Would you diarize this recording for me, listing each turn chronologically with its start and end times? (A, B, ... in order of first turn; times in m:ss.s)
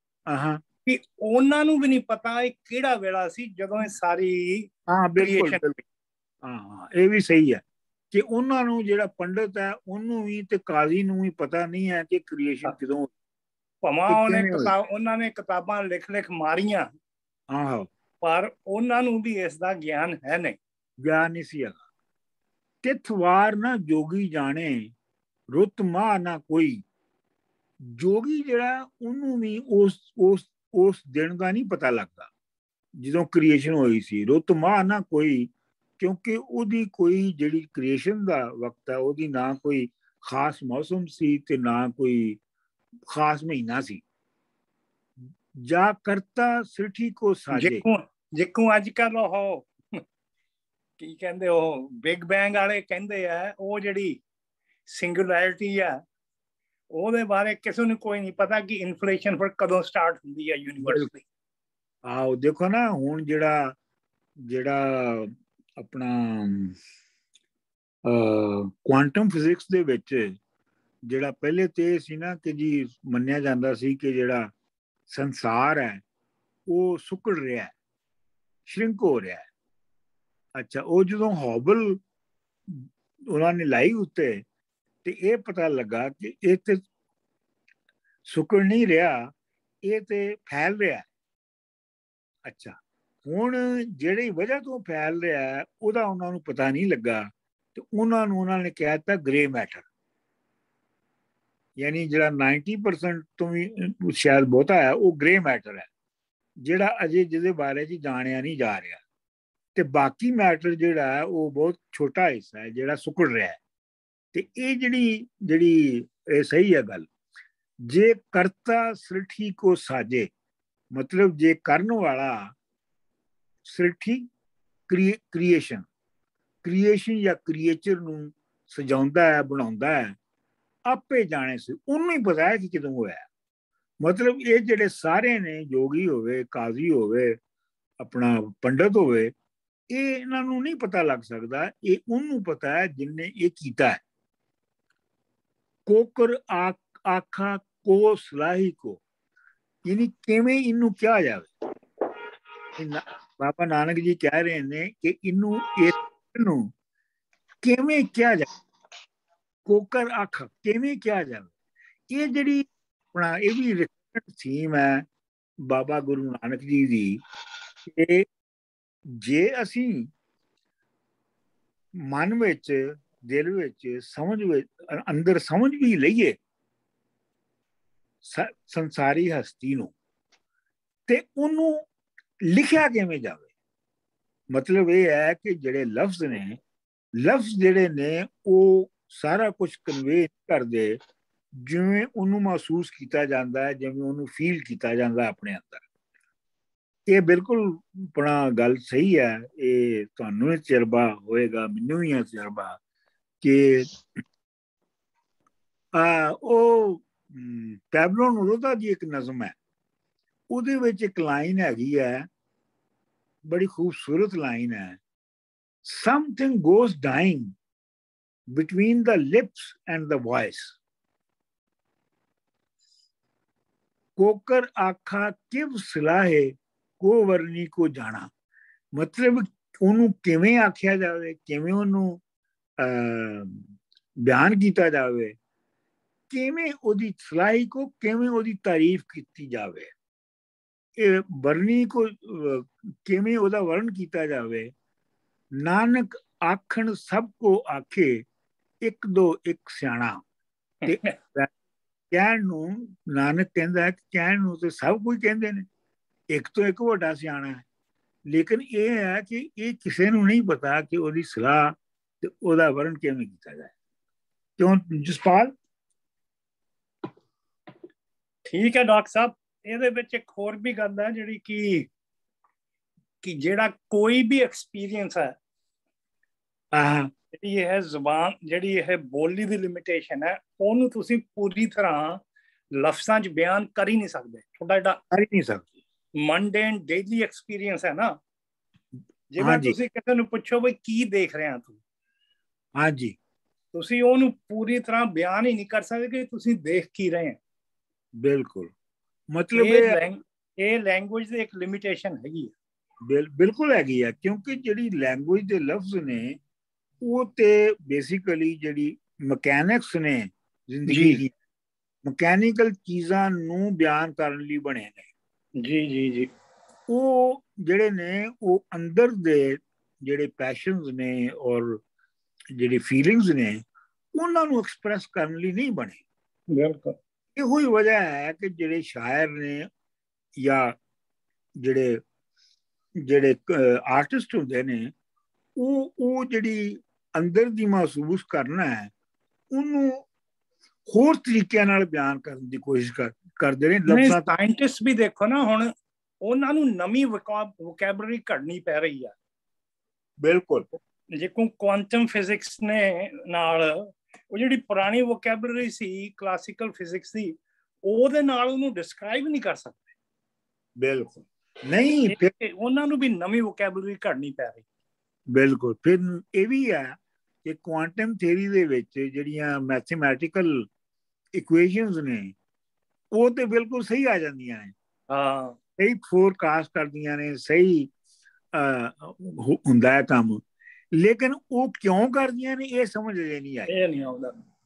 0:00.3-0:00.6 A
0:00.8-0:05.6 B
0:04.9-0:05.8 A
0:06.4-0:07.6 A
0:08.1-0:13.1 A
0:13.8-0:16.9 B
0:14.1-0:14.7 A
0:17.5-0:17.9 A
0:18.2-0:20.6 B
0:21.0-0:21.8 A
0:22.8-0:24.9 A
0:25.5-0:26.8 A
0:27.8-0:32.3 A
0:33.0-0:42.4 A
0:43.1-0:44.0 A
0:45.6-0:47.8 A
0:47.5-0:50.0 B
0:51.0-0:54.2 B
0:54.9-0:56.0 B
0:56.9-1:01.2 B
1:02.1-1:03.8 A
1:04.5-1:06.8 A
1:08.1-1:10.4 A
1:11.1-1:14.5 A
1:15.1-1:16.0 A
1:16.7-1:17.7 A
1:18.7-1:19.5 A
1:20.6-1:22.0 A
1:22.7-1:24.4 A
1:25.0-1:26.8 A
1:28.3-1:29.3 A
1:29.9-1:31.1 A
1:32.5-1:39.9 A
1:41.8-1:45.9 A
1:46.6-1:49.0 A
1:49.8-1:53.6 A
1:54.3-1:57.1 A
1:57.8-2:00.3 A
2:00.9-2:02.6 A
2:03.6-2:04.3 A
2:04.9-2:05.9 A
2:06.6-2:10.2 A
2:10.9-2:13.3 A
2:14.0-2:17.4 A
2:18.0-2:19.3 A
2:19.9-2:24.0 A
2:25.9-2:29.0 A
2:29.9-2:31.5 A
2:32.8-2:36.7 A
2:37.6-2:38.5 A
2:39.7-2:41.5 A
2:42.1-2:45.0 A
2:45.6-2:47.2 A
2:47.9-2:48.3 A
2:49.1-2:50.1 A
2:52.1-2:56.4 A
2:58.2-2:59.9 A
3:01.1-3:01.8 A
3:02.4-3:03.5 A
3:04.5-3:06.6 A
3:07.2-3:11.0 A
3:11.6-3:15.8 A
3:17.1-3:22.8 A
3:23.4-3:23.9 A
3:26.0-3:29.6 A
3:30.5-3:32.3 A
3:33.4-3:35.0 A
3:35.8-3:37.5 A
3:38.5-3:40.8 A
3:44.2-3:48.3 A
3:49.0-3:52.2 A
3:52.8-3:53.7 A
3:54.2-3:55.4 A
3:56.3-3:59.9 A
4:01.0-4:04.7 A
4:05.6-4:08.2 A
4:08.8-4:10.2 A
4:10.8-4:11.2 B
4:10.9-4:11.5 A
4:12.1-4:15.7 A
4:16.3-4:17.6 A
4:18.3-4:23.7 A
4:24.6-4:25.5 A
4:28.5-4:31.9 B
4:33.2-4:35.3 B
4:36.8-4:37.1 A
4:37.4-4:42.2 B
4:42.8-4:45.0 B
4:45.1-4:45.7 A
4:46.2-4:48.1 B
4:49.3-4:51.8 B
4:49.4-4:49.8 A
4:52.8-4:53.2 A
4:53.7-4:57.4 B
4:58.2-4:58.7 A
4:59.3-5:00.0 A
4:59.6-5:02.5 B
5:03.1-5:06.4 A
5:07.0-5:11.3 A
5:10.9-5:11.2 B
5:12.1-5:15.1 A
5:15.6-5:16.3 B
5:16.9-5:21.8 A
5:22.6-5:23.6 A
5:24.2-5:26.0 A
5:26.5-5:27.0 B
5:27.4-5:29.7 A
5:30.4-5:30.8 A
5:31.6-5:32.0 A
5:33.0-5:34.9 A
5:35.6-5:38.9 A
5:39.5-5:40.1 A
5:40.9-5:44.3 A
5:43.9-5:45.7 B
5:46.2-5:49.1 B
5:50.2-5:50.7 A
5:51.2-5:57.3 B
5:57.9-5:59.9 B
6:00.8-6:02.3 A
6:02.1-6:04.6 B
6:05.3-6:10.7 A
6:11.4-6:12.3 A
6:13.1-6:14.7 A
6:15.1-6:15.6 B
6:15.8-6:17.9 A
6:18.5-6:20.4 A
6:20.9-6:23.7 A
6:23.7-6:24.4 B